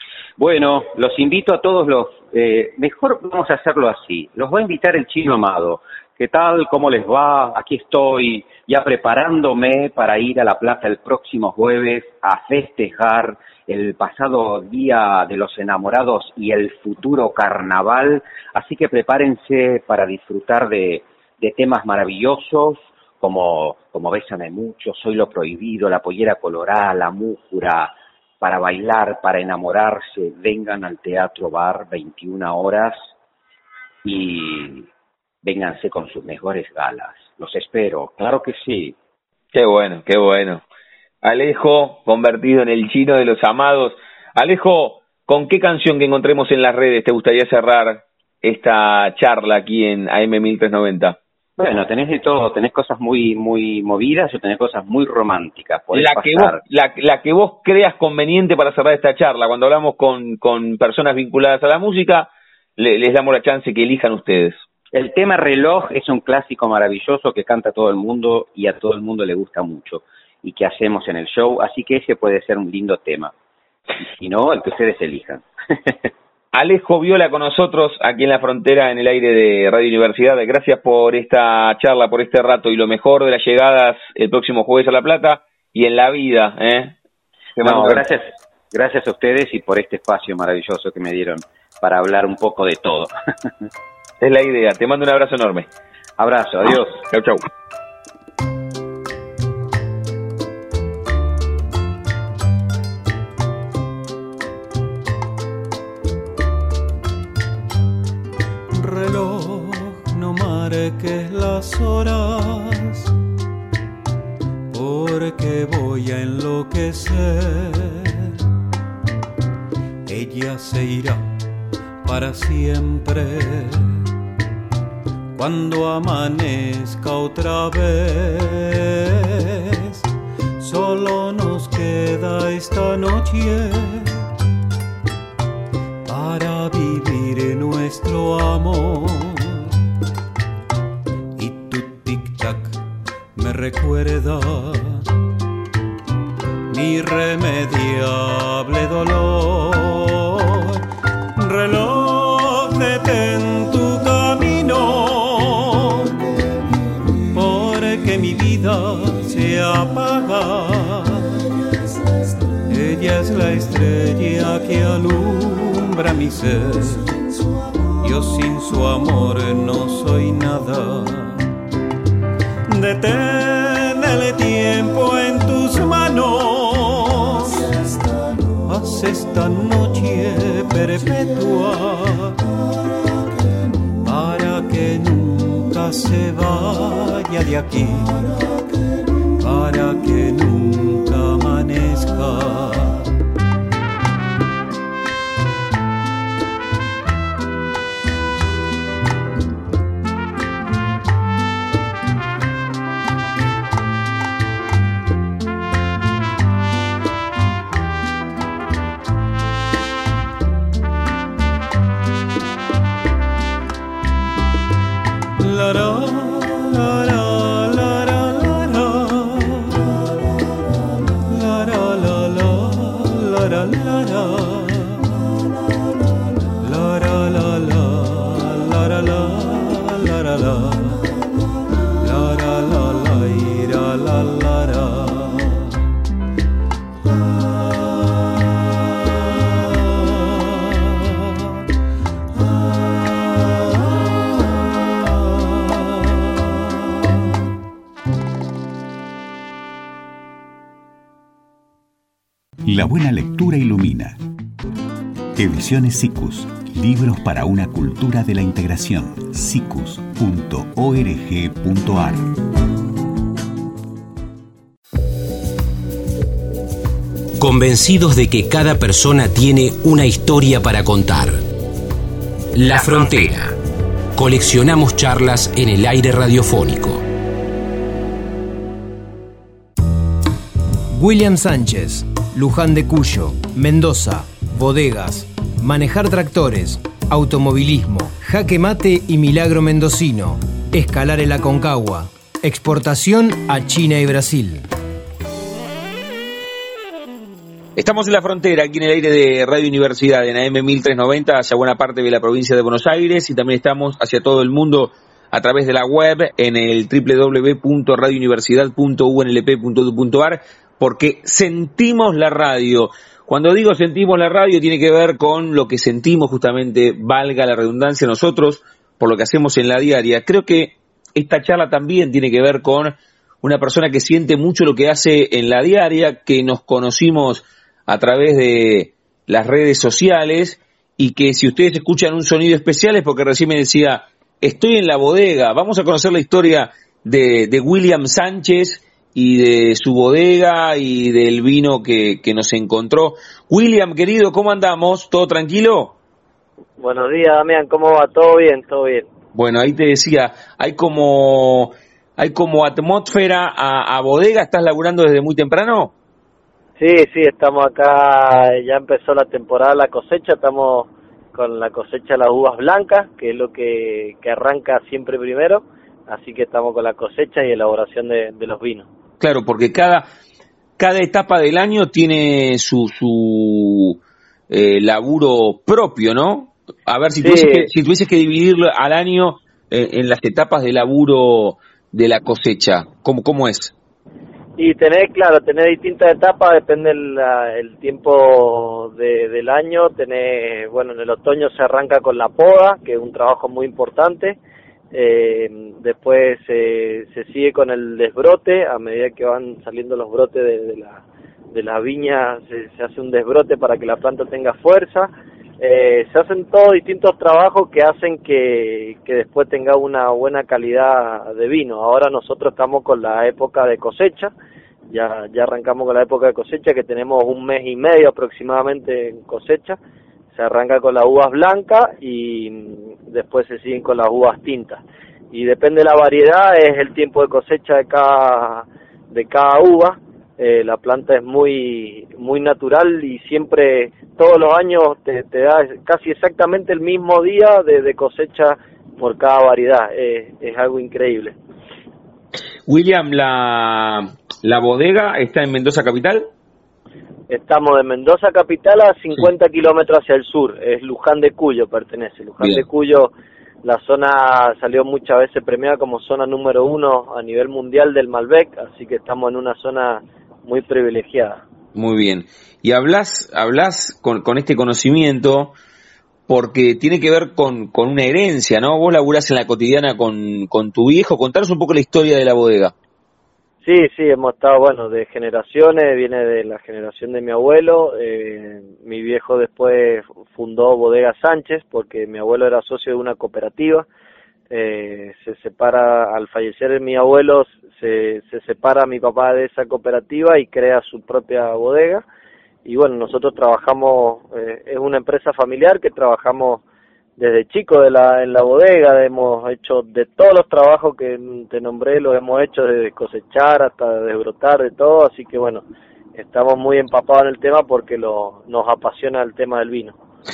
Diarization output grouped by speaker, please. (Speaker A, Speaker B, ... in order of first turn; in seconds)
Speaker A: 0.4-33.1, 34.0-34.9, 35.4-39.0, 51.6-56.6, 64.9-73.3, 74.2-76.0, 87.6-93.1, 96.2-97.0
Speaker B: 39.5-40.6, 41.2-51.2, 55.9-64.6, 76.5-87.0, 87.5-88.0, 94.2-95.7, 96.6-97.4, 297.8-345.9, 349.3-355.9, 369.2-370.1, 370.8-374.0, 374.5-383.7, 442.7-446.3, 461.7-465.5, 466.3-472.7
Speaker C: 108.7-113.1, 114.7-118.3, 120.1-121.3, 122.0-124.0, 125.3-130.0, 130.6-134.3, 136.1-139.6, 141.3-142.8, 143.3-145.1, 146.7-150.8, 151.3-156.2, 157.3-161.4, 162.7-167.3, 168.0-171.5, 172.7-177.7, 178.6-182.4, 184.0-188.3, 189.4-193.1, 215.4-220.0, 221.2-225.2, 226.6-231.1, 232.0-235.8, 239.6-240.9
Speaker D: 252.6-254.2, 255.3-262.3
Speaker E: 267.4-271.4, 272.5-273.6, 274.1-277.0
Speaker F: 280.9-294.7
Speaker G: 346.8-349.1, 356.8-368.9, 377.2-377.7, 384.6-394.4, 394.9-414.3, 414.9-419.8, 420.3-441.3, 447.3-453.1, 453.6-461.4, 473.6-483.9, 484.5-492.0, 492.6-496.6, 497.2-505.6, 506.1-509.9